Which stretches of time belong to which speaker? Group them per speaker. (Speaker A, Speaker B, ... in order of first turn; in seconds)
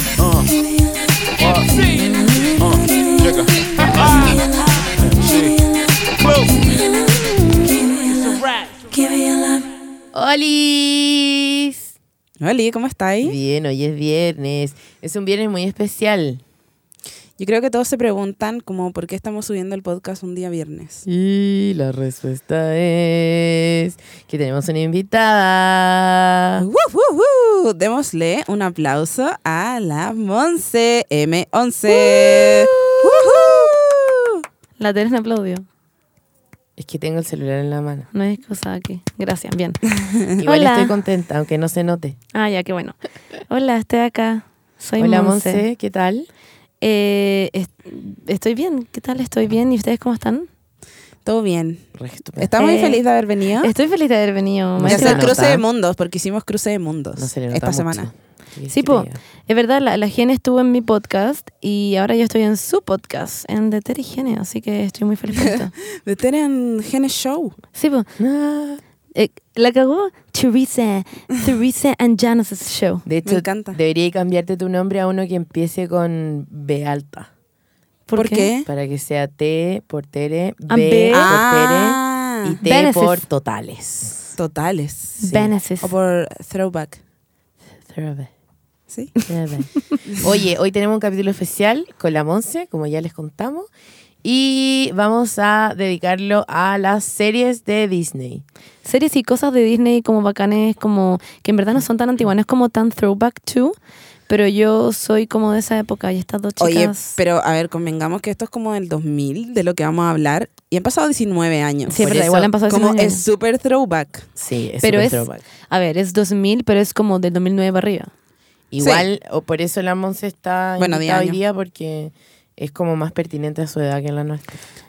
Speaker A: 0.2-0.6, 1.4-4.4, 5.0-6.9, 8.0-8.8
Speaker B: 10.1-11.9, 13.2-16.4, 21.1-26.6, 32.1-32.6, 36.8-38.1, 40.4-42.2, 45.0-46.3, 52.0-52.5, 54.8-55.6, 57.2-59.2, 68.2-68.8, 73.0-77.3, 78.6-84.3, 85.2-85.5, 87.8-88.3, 89.3-93.7, 94.2-98.4, 112.0-112.5, 114.4-115.4, 118.7-124.6
Speaker C: 12.4-13.4, 17.4-21.0, 26.6-34.4, 51.2-51.8, 52.4-53.7, 54.9-58.1, 65.4-67.5, 73.2-73.8, 78.2-78.7, 81.1-82.6, 84.4-85.2, 85.8-87.0, 106.6-114.2, 118.8-119.1, 120.8-121.4
Speaker D: 34.8-35.6, 38.1-39.8, 40.3-40.9, 42.3-43.0, 43.5-45.6, 46.8-50.5, 52.6-53.0, 53.6-55.3, 58.7-65.7, 67.7-68.1, 69.1-73.0, 78.1-78.5, 80.7-81.3, 82.6-83.2, 85.2-85.9, 89.2-90.0, 98.8-103.7, 104.3-107.2, 111.9-113.2, 114.8-118.1